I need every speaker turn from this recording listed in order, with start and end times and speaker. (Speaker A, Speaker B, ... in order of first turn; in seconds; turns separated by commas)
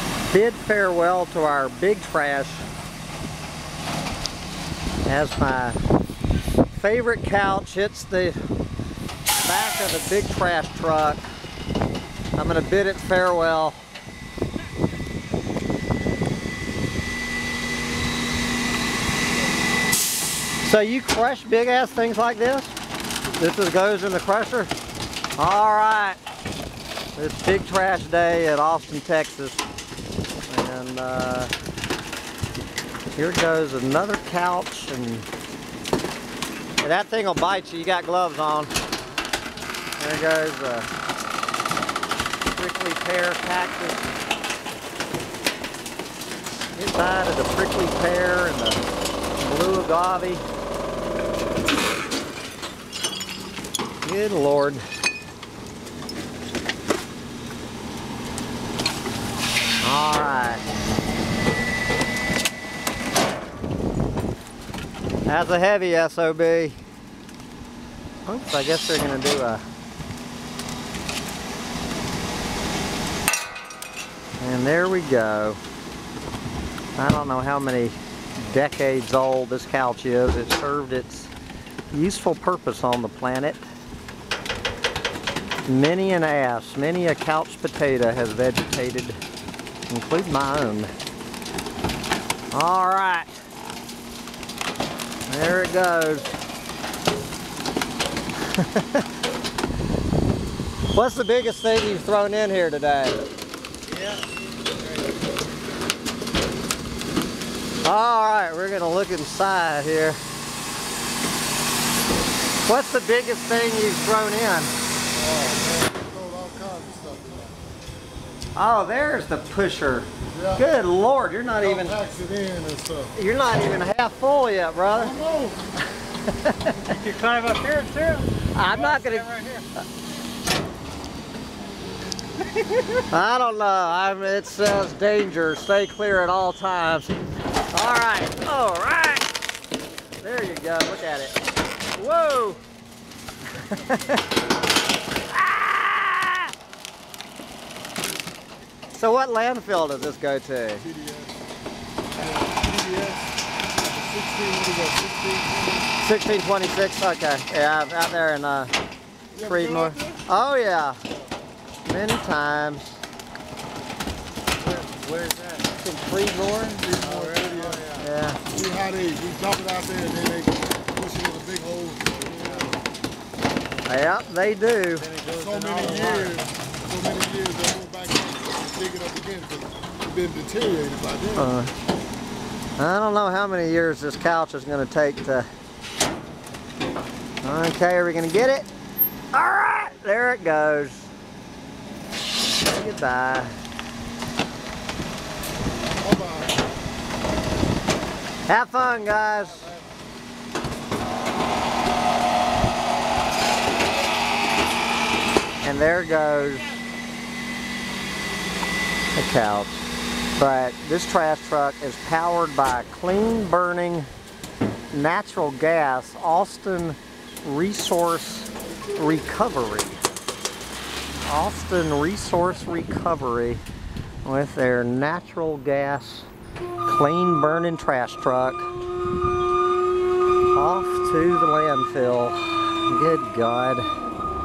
Speaker A: 0.3-2.6, Speaker A: 5.1-5.8, Speaker A: 6.7-8.4, Speaker A: 9.4-11.3, Speaker A: 12.3-13.8, Speaker A: 20.6-22.8, Speaker A: 23.4-24.7, Speaker A: 25.4-26.2, Speaker A: 27.2-29.6, Speaker A: 30.5-31.5, Speaker A: 33.2-35.3, Speaker A: 36.8-38.7, Speaker A: 40.0-40.9, Speaker A: 42.5-44.1, Speaker A: 46.7-48.8, Speaker A: 49.4-50.4, Speaker A: 54.0-54.8, Speaker A: 59.8-60.6, Speaker A: 65.3-66.8, Speaker A: 68.3-69.6, Speaker A: 74.4-75.6, Speaker A: 77.0-81.3, Speaker A: 81.9-83.6, Speaker A: 85.7-89.2, Speaker A: 89.9-90.9, Speaker A: 92.5-93.3, Speaker A: 95.3-96.4, Speaker A: 98.5-99.0, Speaker A: 100.9-103.3, Speaker B: 103.9-104.2, Speaker A: 107.8-110.2, Speaker A: 112.7-114.7, Speaker C: 115.2-117.6, Speaker A: 118.6-122.0, Speaker C: 120.3-120.6, Speaker C: 121.6-123.1, Speaker A: 123.2-125.1, Speaker C: 124.9-125.6, Speaker A: 126.1-126.9, Speaker B: 126.8-129.7, Speaker A: 128.5-129.3, Speaker A: 133.0-137.2, Speaker A: 137.7-139.3, Speaker A: 140.2-141.4, Speaker A: 141.9-142.6, Speaker A: 143.6-144.2, Speaker A: 145.3-146.5, Speaker A: 148.9-150.9, Speaker C: 150.8-151.4, Speaker C: 152.2-155.9, Speaker A: 156.0-158.7, Speaker C: 159.3-160.2, Speaker A: 159.4-161.0, Speaker A: 161.8-163.0, Speaker B: 164.6-165.7, Speaker A: 165.8-166.9, Speaker C: 166.9-167.8, Speaker B: 166.9-168.1, Speaker A: 168.0-168.4, Speaker C: 168.5-172.8, Speaker B: 172.4-172.8, Speaker A: 173.9-175.1, Speaker B: 175.0-176.3, Speaker C: 175.3-181.5, Speaker A: 181.4-181.7, Speaker A: 182.8-185.5, Speaker A: 187.4-188.7, Speaker A: 189.3-191.1, Speaker A: 192.6-193.5, Speaker C: 196.0-196.6, Speaker A: 198.5-199.7, Speaker A: 205.6-206.7, Speaker A: 209.2-209.8, Speaker A: 210.4-214.1, Speaker A: 214.9-220.0, Speaker A: 221.2-223.6, Speaker A: 224.2-226.3, Speaker A: 226.9-228.7, Speaker A: 230.5-233.8